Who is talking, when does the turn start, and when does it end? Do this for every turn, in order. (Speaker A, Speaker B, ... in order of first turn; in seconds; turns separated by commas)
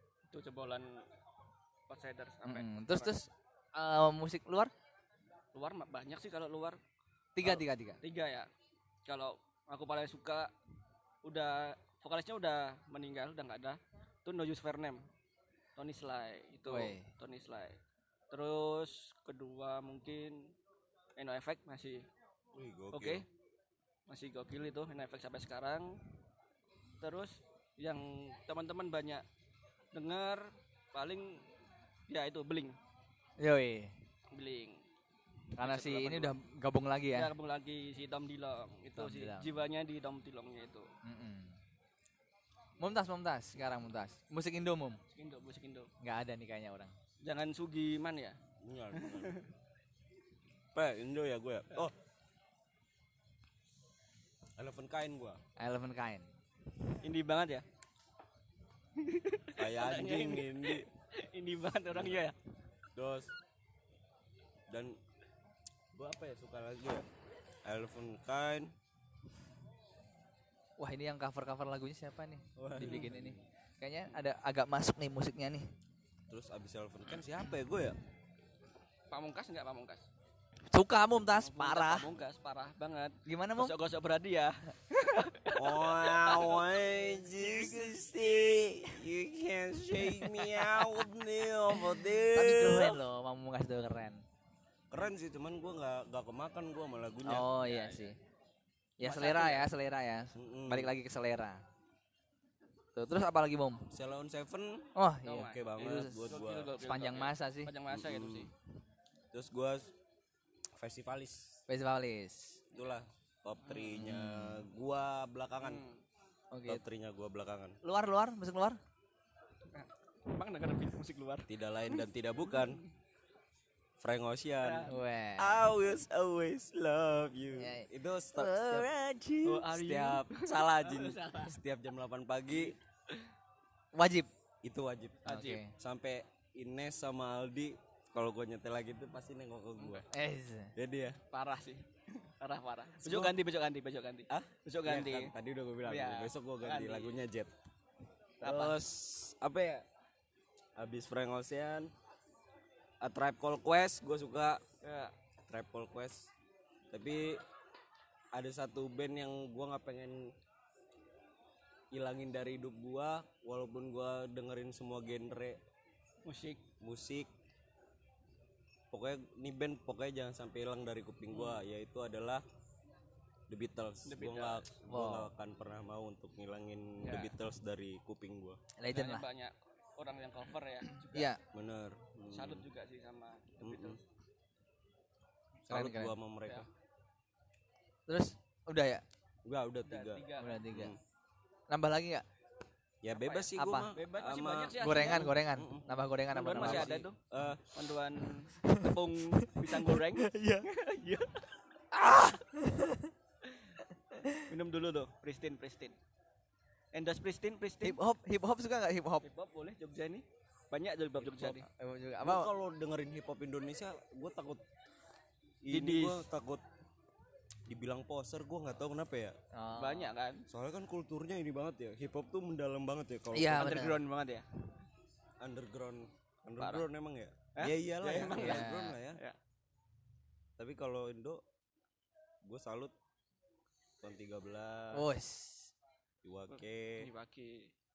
Speaker A: 0.3-1.0, Speaker A: 1.9-3.1, Speaker B: 2.5-4.7, Speaker A: 5.5-6.8, Speaker B: 7.4-8.0, Speaker A: 7.4-8.5, Speaker A: 9.1-10.5, Speaker A: 11.2-15.1, Speaker A: 15.8-17.8, Speaker B: 16.7-17.1, Speaker A: 18.3-20.5, Speaker A: 21.2-22.1, Speaker C: 22.5-23.2, Speaker A: 22.9-23.2, Speaker A: 24.1-26.0, Speaker A: 27.0-29.2, Speaker A: 29.9-31.4, Speaker A: 32.1-32.8, Speaker B: 33.4-33.9, Speaker A: 34.3-34.8, Speaker B: 35.6-37.3, Speaker A: 35.6-36.4, Speaker A: 37.1-40.9, Speaker B: 39.0-39.5, Speaker B: 41.0-41.6, Speaker B: 42.8-45.0, Speaker A: 45.1-45.9, Speaker B: 46.0-46.9, Speaker A: 47.2-48.4, Speaker C: 48.6-49.4, Speaker A: 48.9-49.5, Speaker C: 50.7-52.0, Speaker C: 54.6-55.4, Speaker B: 55.6-56.2, Speaker A: 57.0-57.6, Speaker A: 59.0-62.4, Speaker C: 59.6-60.9, Speaker C: 61.9-62.2, Speaker C: 63.0-63.3, Speaker C: 64.7-65.0, Speaker C: 65.9-67.0, Speaker C: 67.7-68.7, Speaker B: 70.8-75.7, Speaker C: 72.6-73.4, Speaker A: 72.8-73.0, Speaker C: 76.3-78.0, Speaker A: 79.1-80.1, Speaker B: 80.7-82.1, Speaker A: 81.3-87.9, Speaker B: 83.3-83.7, Speaker C: 85.6-93.0, Speaker B: 92.3-94.2, Speaker C: 94.9-97.5, Speaker B: 97.2-98.2, Speaker A: 97.6-98.0, Speaker B: 99.0-101.6, Speaker A: 99.0-99.7, Speaker C: 100.3-100.9, Speaker B: 103.0-103.9, Speaker C: 103.9-106.8, Speaker B: 105.0-106.2, Speaker A: 105.2-108.5, Speaker B: 106.8-107.7, Speaker C: 107.9-108.5, Speaker C: 109.3-109.9, Speaker C: 110.8-111.6, Speaker B: 111.7-112.6, Speaker C: 112.7-115.8, Speaker B: 113.8-114.7, Speaker A: 115.6-116.0, Speaker B: 116.5-116.8, Speaker C: 116.7-117.8, Speaker B: 117.8-118.8, Speaker A: 119.7-122.9, Speaker C: 121.5-122.8, Speaker C: 124.0-128.9, Speaker A: 124.6-124.9, Speaker B: 124.9-125.7, Speaker B: 127.6-129.7, Speaker A: 129.4-131.6, Speaker C: 129.7-132.8, Speaker A: 132.5-133.3, Speaker B: 133.9-134.3, Speaker C: 134.6-140.1, Speaker A: 135.2-135.7, Speaker B: 135.3-135.7, Speaker A: 139.8-140.1, Speaker B: 140.1-140.7, Speaker C: 140.8-141.2, Speaker A: 141.3-145.3, Speaker C: 143.0-143.4, Speaker C: 144.3-147.5, Speaker A: 145.8-147.2, Speaker C: 148.4-149.8, Speaker A: 148.4-148.8, Speaker C: 150.8-151.9, Speaker C: 153.0-154.6, Speaker A: 154.8-155.1, Speaker C: 155.5-156.3, Speaker C: 156.9-157.4, Speaker C: 158.3-160.3, Speaker C: 161.9-165.6, Speaker A: 166.2-166.6, Speaker C: 166.8-167.3, Speaker C: 168.9-172.4, Speaker A: 171.3-171.6, Speaker C: 173.5-178.6, Speaker A: 174.1-174.8, Speaker B: 174.9-175.3, Speaker A: 177.0-177.3, Speaker B: 178.8-179.2, Speaker A: 178.9-181.3, Speaker B: 181.1-181.4, Speaker C: 181.5-182.6, Speaker A: 182.3-184.0, Speaker C: 183.6-184.0, Speaker C: 185.7-186.7, Speaker B: 185.7-186.2, Speaker B: 188.1-189.0, Speaker C: 189.4-191.0, Speaker A: 189.8-190.6, Speaker B: 190.4-190.9, Speaker B: 191.7-192.2, Speaker C: 193.0-196.0, Speaker A: 193.2-195.3, Speaker B: 193.5-193.9, Speaker B: 194.8-197.0, Speaker A: 196.3-197.2, Speaker C: 196.5-197.6, Speaker A: 197.7-201.4, Speaker B: 198.6-200.7, Speaker B: 201.9-203.1, Speaker A: 203.4-203.7, Speaker A: 204.4-206.0, Speaker A: 206.9-208.0, Speaker B: 207.8-209.2, Speaker A: 209.2-211.7, Speaker B: 211.4-212.5, Speaker C: 212.2-214.6, Speaker C: 215.7-216.6, Speaker A: 215.7-216.2, Speaker C: 217.7-219.3, Speaker B: 219.5-220.1, Speaker A: 219.8-220.4, Speaker C: 220.5-223.8, Speaker B: 223.3-224.0, Speaker A: 223.5-224.5, Speaker C: 225.4-229.2, Speaker A: 226.6-226.9, Speaker A: 227.6-229.4, Speaker B: 228.2-229.0, Speaker C: 230.6-231.4, Speaker C: 232.4-232.9, Speaker C: 234.0-235.1, Speaker B: 234.9-235.7, Speaker C: 236.2-237.1, Speaker A: 236.5-237.7